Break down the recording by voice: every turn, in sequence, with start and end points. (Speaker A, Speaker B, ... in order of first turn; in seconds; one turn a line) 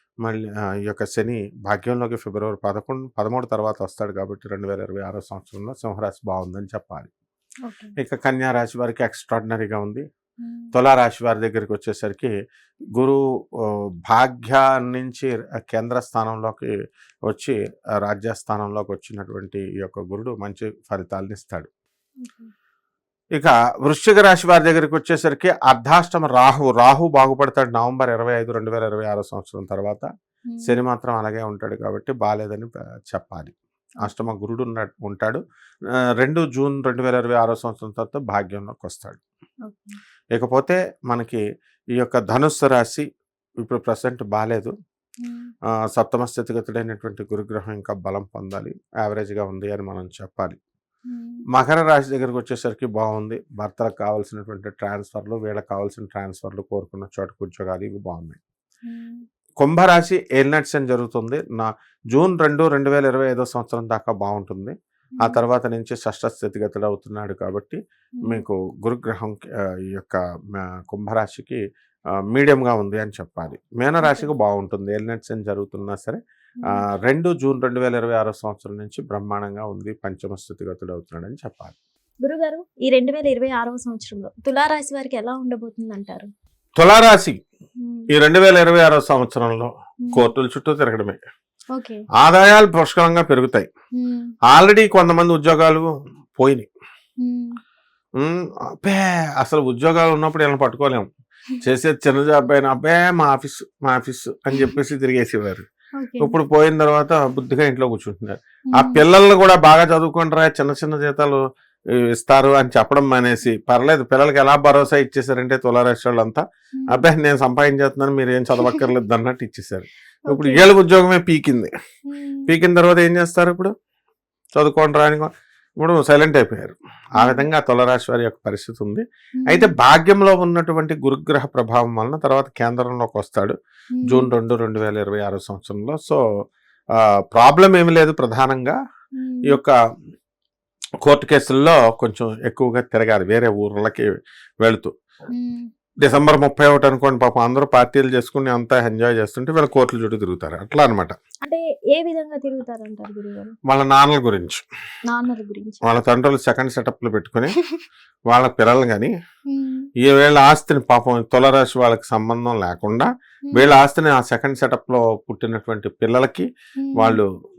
Speaker A: 0.2-7.1
Speaker B: 7.7-7.9
Speaker A: 8.0-10.0
Speaker B: 10.4-10.7
Speaker A: 10.7-12.3
Speaker A: 13.0-16.7
Speaker A: 17.3-21.7
Speaker B: 22.2-22.5
Speaker A: 23.4-30.1
Speaker A: 30.6-35.4
Speaker A: 36.2-39.2
Speaker B: 39.7-40.0
Speaker A: 40.4-41.4
Speaker A: 42.0-43.0
Speaker A: 43.6-44.7
Speaker B: 45.2-45.5
Speaker A: 45.9-50.6
Speaker B: 51.1-51.5
Speaker A: 51.5-58.4
Speaker B: 58.9-59.2
Speaker A: 59.6-71.6
Speaker B: 68.2-68.4
Speaker A: 72.3-76.2
Speaker B: 74.0-74.3
Speaker A: 76.7-81.8
Speaker B: 82.2-86.3
Speaker A: 86.8-87.4
Speaker B: 87.8-88.1
Speaker A: 88.1-91.2
Speaker B: 90.0-90.3
Speaker B: 91.8-92.0
Speaker A: 92.2-93.7
Speaker B: 94.0-94.3
Speaker A: 94.5-96.7
Speaker B: 97.2-97.5
Speaker A: 98.2-101.1
Speaker A: 101.6-105.7
Speaker B: 106.0-106.3
Speaker A: 106.2-111.4
Speaker B: 108.7-109.0
Speaker A: 112.0-121.7
Speaker B: 116.7-117.1
Speaker B: 120.3-120.7
Speaker B: 122.1-122.5
Speaker A: 122.5-123.7
Speaker A: 124.5-133.6
Speaker B: 127.2-127.5
Speaker B: 129.4-129.7
Speaker B: 134.1-134.3
Speaker A: 134.1-136.2
Speaker A: 137.0-138.8
Speaker B: 139.2-139.6
Speaker A: 139.5-139.8
Speaker A: 141.0-144.9
Speaker B: 145.3-145.7
Speaker A: 146.0-151.2
Speaker B: 151.4-153.5
Speaker A: 153.7-154.6
Speaker B: 155.1-155.8
Speaker A: 155.8-157.6
Speaker A: 158.3-159.1
Speaker B: 159.5-159.9
Speaker A: 160.0-167.3
Speaker B: 166.8-167.2